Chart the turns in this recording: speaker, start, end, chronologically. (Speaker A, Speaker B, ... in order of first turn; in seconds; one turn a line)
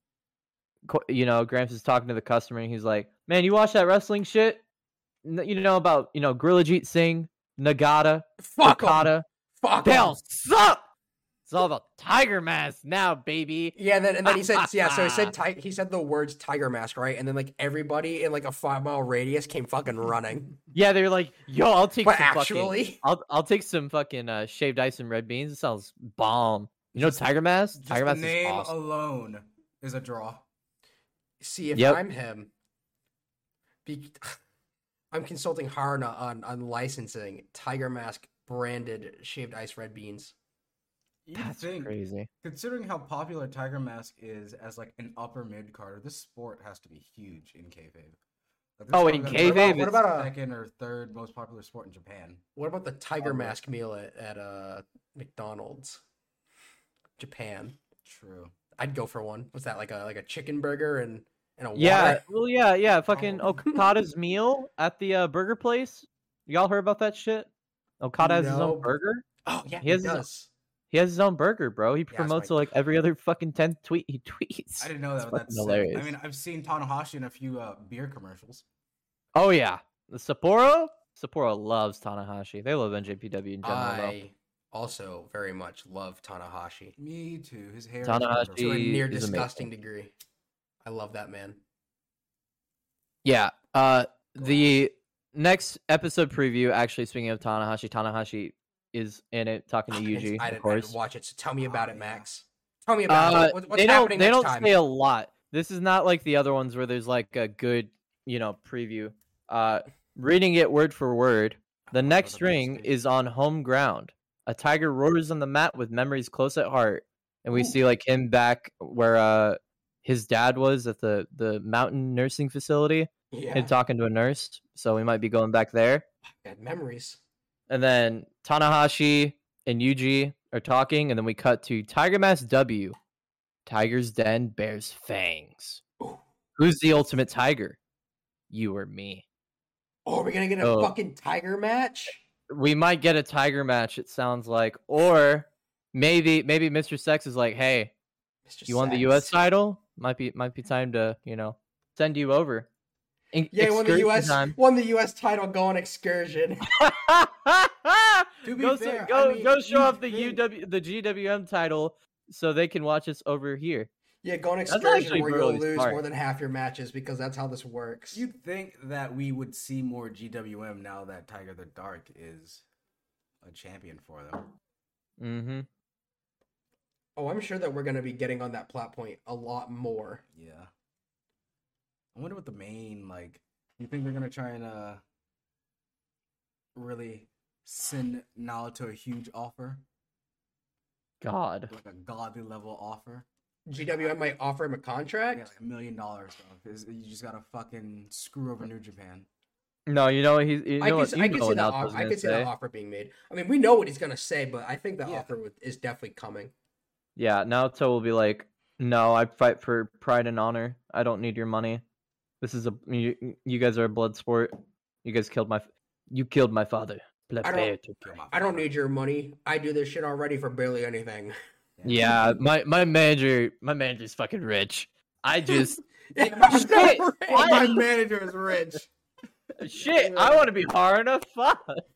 Speaker A: 0.8-4.6
Speaker A: 5.2-9.2
Speaker B: 8.4-10.2
Speaker A: 9.8-10.9
Speaker A: 11.5-15.3
Speaker B: 13.8-20.6
Speaker A: 20.7-28.7
Speaker B: 22.0-23.0
Speaker C: 27.0-27.2
Speaker C: 27.8-30.4
Speaker B: 31.4-32.5
Speaker A: 31.7-32.0
Speaker B: 33.8-34.4
Speaker B: 35.1-40.3
Speaker C: 41.2-48.2
Speaker A: 41.4-42.3
Speaker C: 48.8-52.4
Speaker A: 48.9-50.0
Speaker B: 49.4-50.3
Speaker B: 52.5-56.0
Speaker C: 53.2-53.5
Speaker B: 57.2-57.8
Speaker C: 58.0-58.5
Speaker B: 58.8-62.2
Speaker A: 61.7-67.5
Speaker B: 63.1-63.8
Speaker A: 68.0-69.2
Speaker B: 68.2-68.9
Speaker B: 69.4-70.5
Speaker A: 69.8-70.2
Speaker A: 70.9-76.1
Speaker C: 72.1-72.7
Speaker C: 74.8-78.6
Speaker A: 79.3-84.2
Speaker B: 83.6-86.9
Speaker C: 87.0-88.8
Speaker A: 88.0-89.7
Speaker B: 88.6-90.1
Speaker B: 90.8-91.6
Speaker A: 93.2-101.0
Speaker B: 99.9-104.7
Speaker C: 101.6-102.2
Speaker A: 103.1-126.0
Speaker C: 111.9-112.9
Speaker B: 123.3-123.7
Speaker B: 126.4-127.2
Speaker A: 127.7-132.9
Speaker A: 133.7-135.8
Speaker A: 136.6-137.8
Speaker A: 138.5-139.2
Speaker B: 140.1-142.2
Speaker A: 140.6-140.9
Speaker A: 142.5-147.9
Speaker B: 148.5-149.4
Speaker A: 148.7-152.7
Speaker A: 153.3-154.6
Speaker B: 153.5-156.7
Speaker A: 156.8-163.9
Speaker C: 158.4-160.3
Speaker B: 164.2-168.2
Speaker A: 164.7-166.0
Speaker C: 168.1-172.6
Speaker C: 173.4-174.5
Speaker A: 175.2-175.7
Speaker B: 177.2-180.2
Speaker C: 180.3-180.7
Speaker C: 182.1-185.0
Speaker C: 186.7-189.8
Speaker A: 191.2-191.7
Speaker C: 191.7-193.2
Speaker B: 193.7-195.5
Speaker C: 195.3-199.3
Speaker A: 199.9-202.5
Speaker B: 200.8-206.5
Speaker A: 207.2-211.8
Speaker A: 212.4-218.0
Speaker B: 217.4-217.7
Speaker C: 218.0-218.7
Speaker B: 218.3-221.3
Speaker C: 221.8-222.3
Speaker A: 221.8-225.8
Speaker B: 225.4-227.8
Speaker C: 226.2-228.9
Speaker A: 226.4-227.6
Speaker A: 229.6-231.8
Speaker C: 229.8-230.5